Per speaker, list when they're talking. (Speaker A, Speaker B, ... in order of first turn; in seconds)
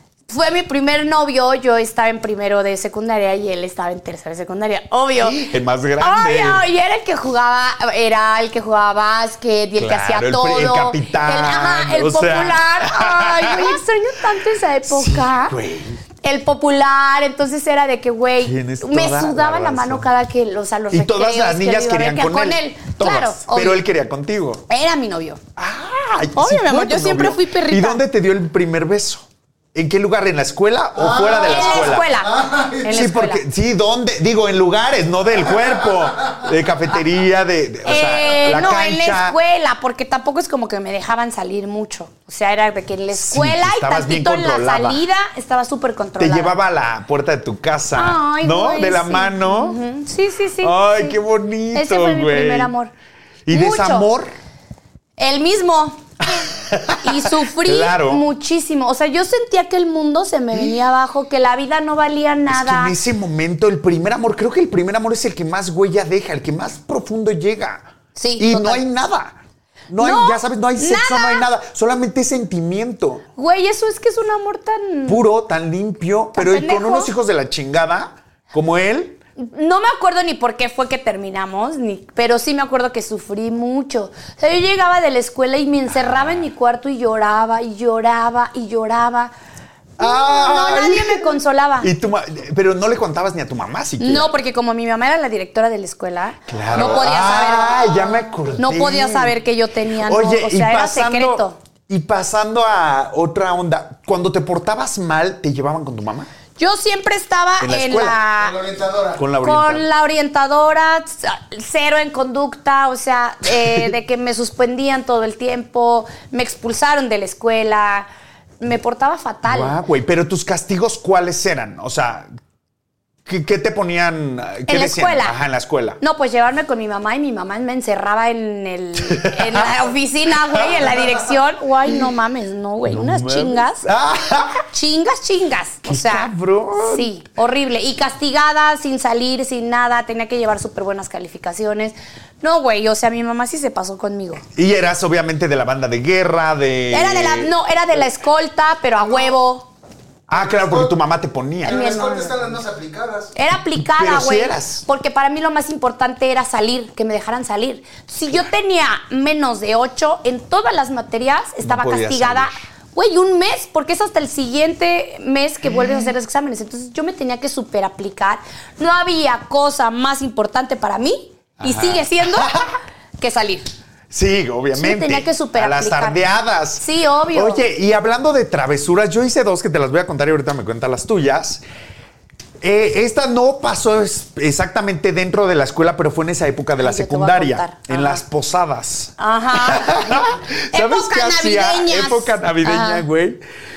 Speaker A: 0.3-5.4, 6.0-15.6, 16.2-23.8, 24.7-25.4, 26.4-28.0, 31.4-33.4, 37.9-46.6, 47.9-51.2, 51.7-52.9, 53.5-54.1, 55.2-56.0, 57.0-63.0, 68.2-68.8, 70.0-71.5, 73.4-75.2, 76.3-77.1, 79.4-89.3, 90.0-91.9, 94.0-101.6, 106.6-108.6, 109.4-118.1, 118.6-119.8, 124.7-125.4, 126.0-133.8, 134.7-144.4, 146.9-149.7, 151.7-152.4, 153.3-172.6, 173.2-173.7, 174.7-176.2, 176.8-177.6, 186.8-188.2, 189.2-193.1
Speaker B: 5.2-6.6, 9.8-13.8, 14.9-16.0, 18.4-20.1, 20.9-24.6, 25.6-32.1, 32.9-39.4, 43.1-45.0, 46.2-49.8, 50.6-52.7, 53.5-54.3, 56.3-58.2, 60.5-60.8, 62.5-69.4, 69.9-73.2, 75.1-79.2, 85.9-86.5, 90.0-94.3, 96.5-99.4, 100.0-106.3, 107.6-108.2, 109.2-109.9, 119.5-122.3, 123.3-126.0, 129.0-129.7, 130.5-131.2, 132.8-134.6, 135.8-137.1, 144.5-147.5, 150.3-151.9, 153.7-154.8, 161.6-162.6, 165.7-166.1, 171.6-172.7, 174.1-181.6, 182.6-193.4
Speaker C: 30.9-32.9, 108.4-109.2, 150.3-150.9, 151.6-153.3